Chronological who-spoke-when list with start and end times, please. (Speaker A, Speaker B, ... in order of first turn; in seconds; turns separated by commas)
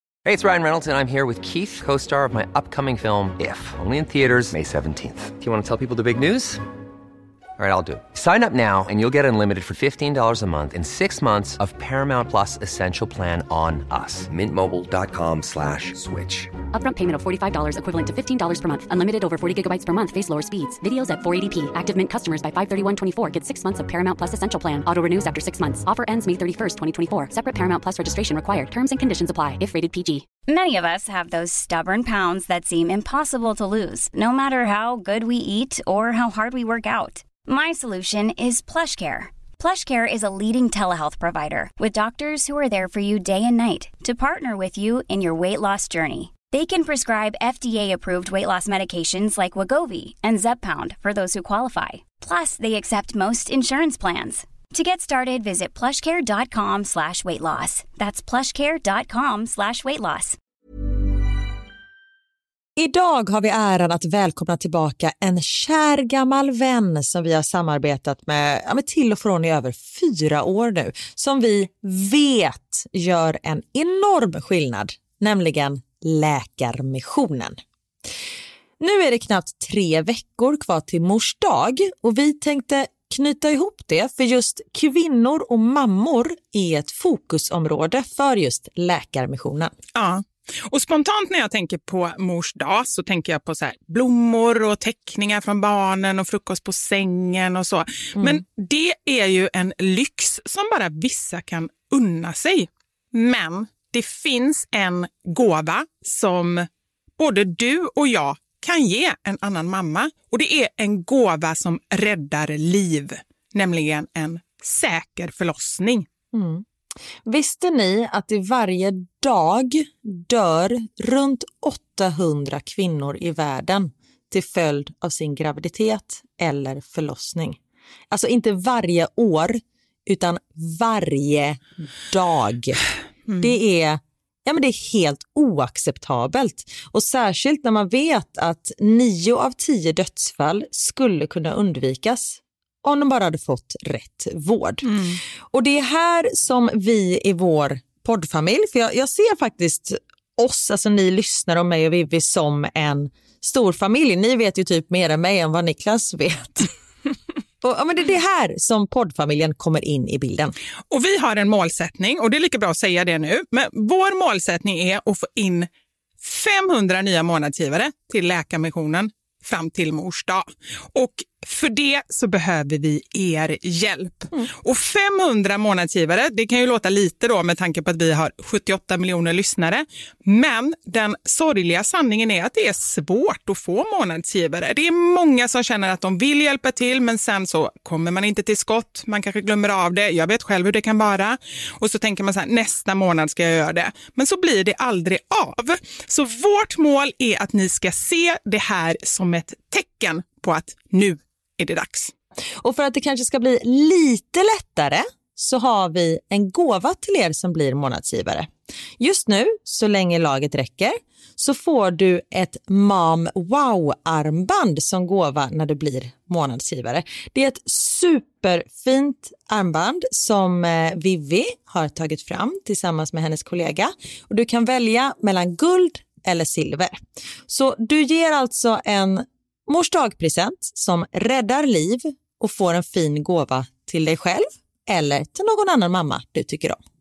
Speaker A: 0.2-6.6, Speaker A: 7.6-16.5, Speaker B: 16.7-30.2, Speaker C: 30.5-60.4, Speaker D: 62.8-77.6, Speaker D: 78.8-89.7, Speaker E: 90.0-106.7, Speaker E: 107.2-116.1, Speaker D: 116.3-116.7, Speaker D: 117.3-127.6, Speaker D: 128.1-132.8, Speaker D: 133.4-144.9, Speaker E: 144.8-145.2, Speaker D: 145.5-156.7, Speaker D: 157.6-160.6, Speaker E: 160.9-165.7, Speaker E: 166.2-202.1, Speaker D: 202.6-236.8